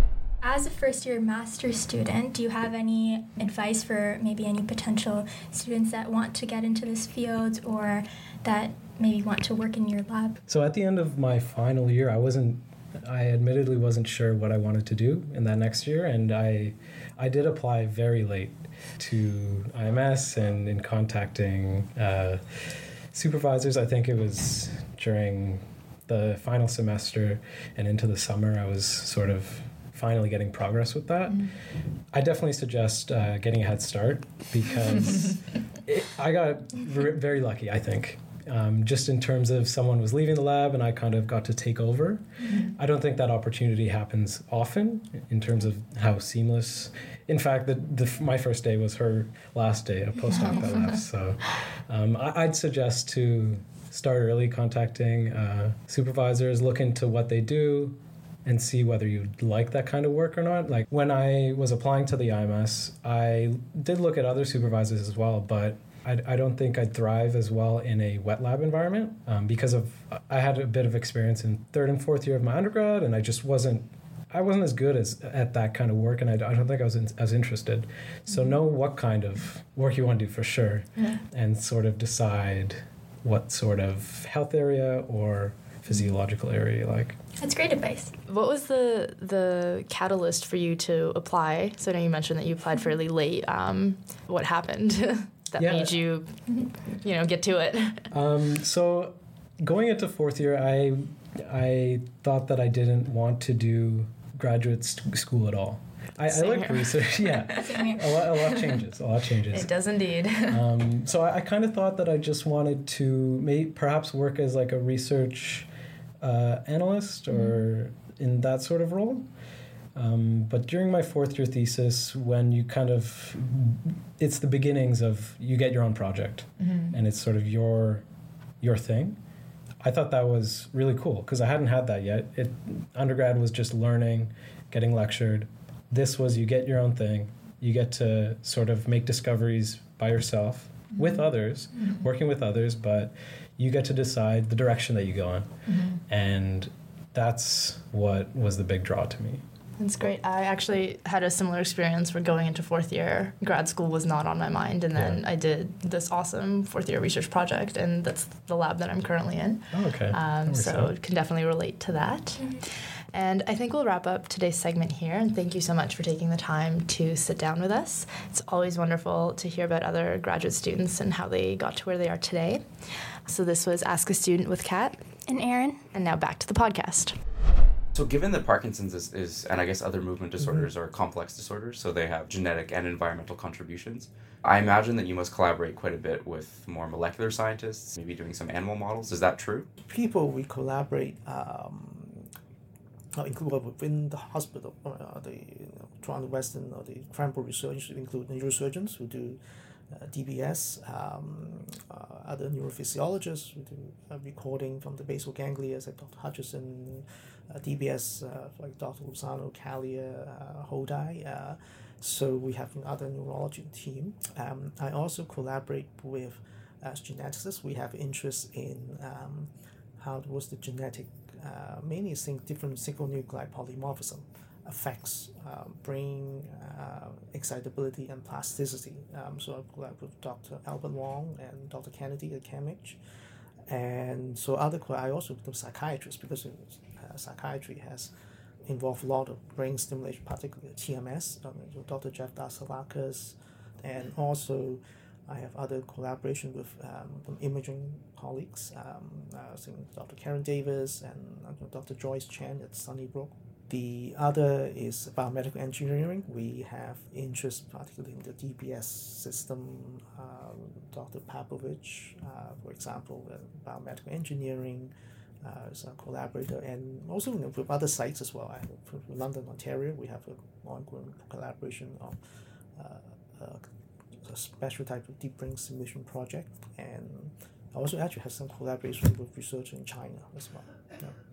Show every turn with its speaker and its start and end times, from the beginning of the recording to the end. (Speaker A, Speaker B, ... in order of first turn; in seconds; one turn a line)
Speaker A: 0.4-10.4
Speaker B: 10.5-31.5
Speaker B: 32.1-87.2
Speaker C: 42.5-42.7
Speaker C: 50.4-50.6
Speaker A: 87.4-88.1
Speaker C: 88.3-98.1
Speaker B: 95.6-95.9
Speaker B: 98.1-109.7
Speaker C: 106.3-108.8
Speaker A: 107.6-108.0
Speaker C: 109.5-110.6
Speaker B: 110.5-115.7
Speaker B: 116.2-119.3
Speaker C: 117.3-117.6
Speaker B: 119.9-128.0
Speaker C: 126.6-126.9
Speaker B: 128.6-129.2
Speaker B: 129.8-149.4
Speaker C: 145.7-146.0
Speaker C: 149.8-172.6
Speaker B: 154.9-155.2
Speaker B: 159.7-160.9
Speaker C: 173.2-175.0
Speaker A: 175.3-175.8
Speaker C: 175.9-177.2
Speaker D: 177.9-189.7
Speaker E: 189.8-192.3
Speaker E: 193.2-199.4
Speaker E: 199.9-233.0
Speaker E: 233.7-238.1
Speaker E: 238.7-264.9
Speaker E: 265.4-272.2
Speaker E: 272.8-273.6
Speaker E: 274.2-281.1